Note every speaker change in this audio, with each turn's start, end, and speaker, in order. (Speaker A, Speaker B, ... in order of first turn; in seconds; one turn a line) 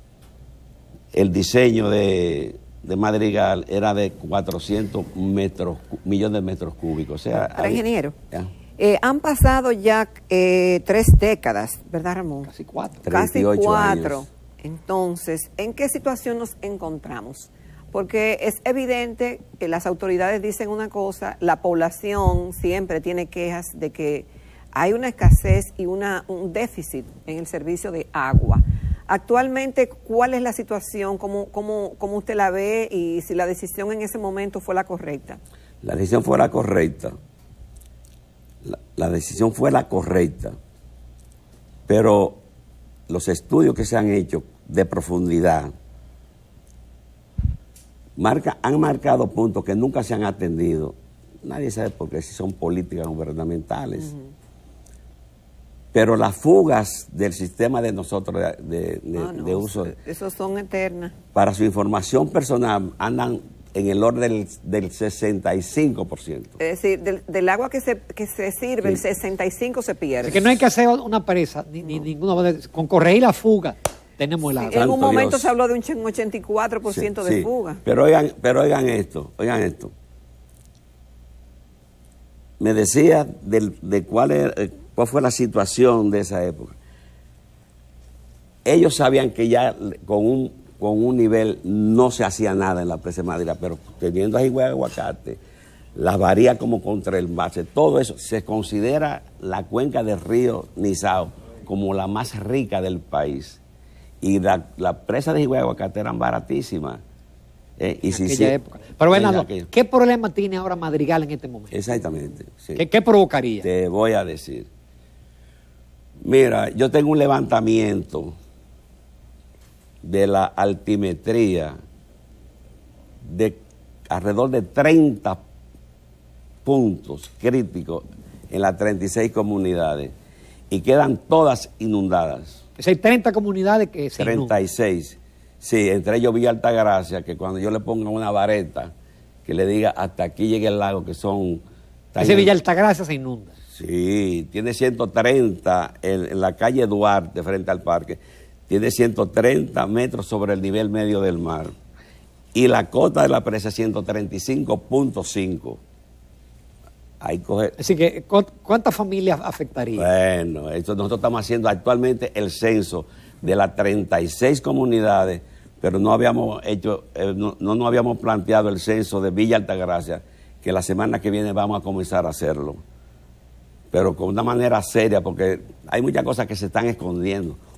Speaker A: 1.1-8.5
Speaker B: 7.5-8.2
Speaker B: 8.8-12.5
Speaker C: 12.4-13.0
Speaker A: 13.0-14.2
Speaker B: 13.1-35.4
Speaker A: 35.8-37.1
Speaker A: 38.6-40.5
Speaker A: 41.9-42.4
Speaker A: 43.1-45.7
Speaker A: 48.2-54.1
Speaker A: 55.9-59.9
Speaker B: 59.1-61.1
Speaker A: 61.3-66.6
Speaker B: 66.6-70.5
Speaker C: 70.2-74.9
Speaker B: 74.5-77.8
Speaker A: 74.7-75.5
Speaker A: 76.9-79.9
Speaker A: 82.6-86.8
Speaker A: 88.6-95.4
Speaker A: 95.9-103.6
Speaker A: 104.2-107.0
Speaker A: 107.8-108.5
Speaker C: 108.1-111.8
Speaker A: 109.1-109.7
Speaker A: 111.7-112.8
Speaker C: 112.8-113.7
Speaker A: 113.6-114.7
Speaker A: 116.2-118.3
Speaker A: 120.0-121.8
Speaker A: 123.2-125.4
Speaker A: 126.6-130.1
Speaker A: 130.7-132.6
Speaker C: 132.8-134.5
Speaker A: 134.2-138.9
Speaker A: 139.4-142.5
Speaker C: 142.2-143.5
Speaker A: 143.7-151.7
Speaker A: 152.5-155.8
Speaker A: 157.2-157.8
Speaker C: 157.8-160.1
Speaker A: 159.9-172.8
Speaker A: 173.9-177.6